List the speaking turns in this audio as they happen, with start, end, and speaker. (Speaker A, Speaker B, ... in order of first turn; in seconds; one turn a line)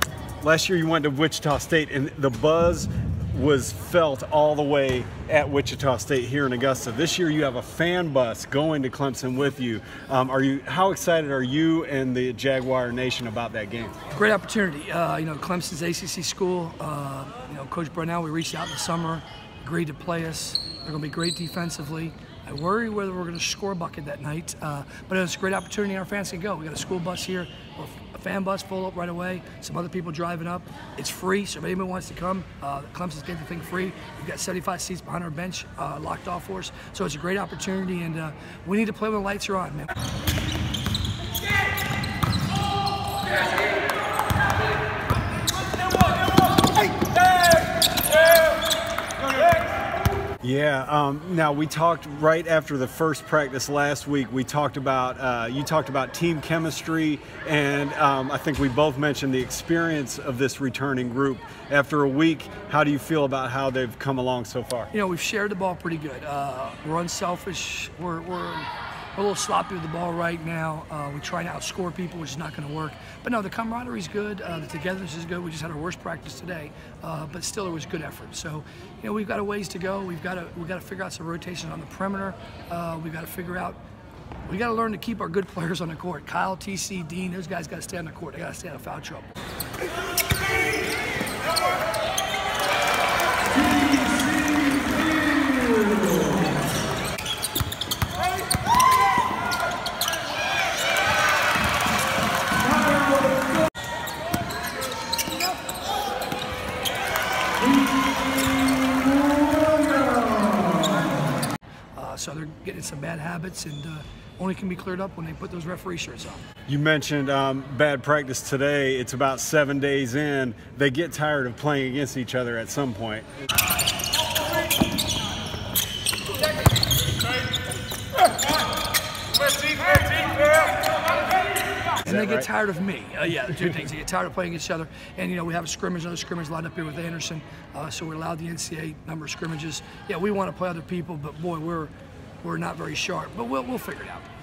Speaker A: 0.4-14.0
Speaker B: 14.1-39.9
Speaker A: 50.4-64.9
Speaker B: 64.9-83.8
Speaker B: 84.5-89.3
Speaker B: 112.0-116.4
Speaker A: 116.7-123.4
Speaker B: 132.0-141.9
Speaker A: 132.0-132.5
Speaker B: 142.4-144.3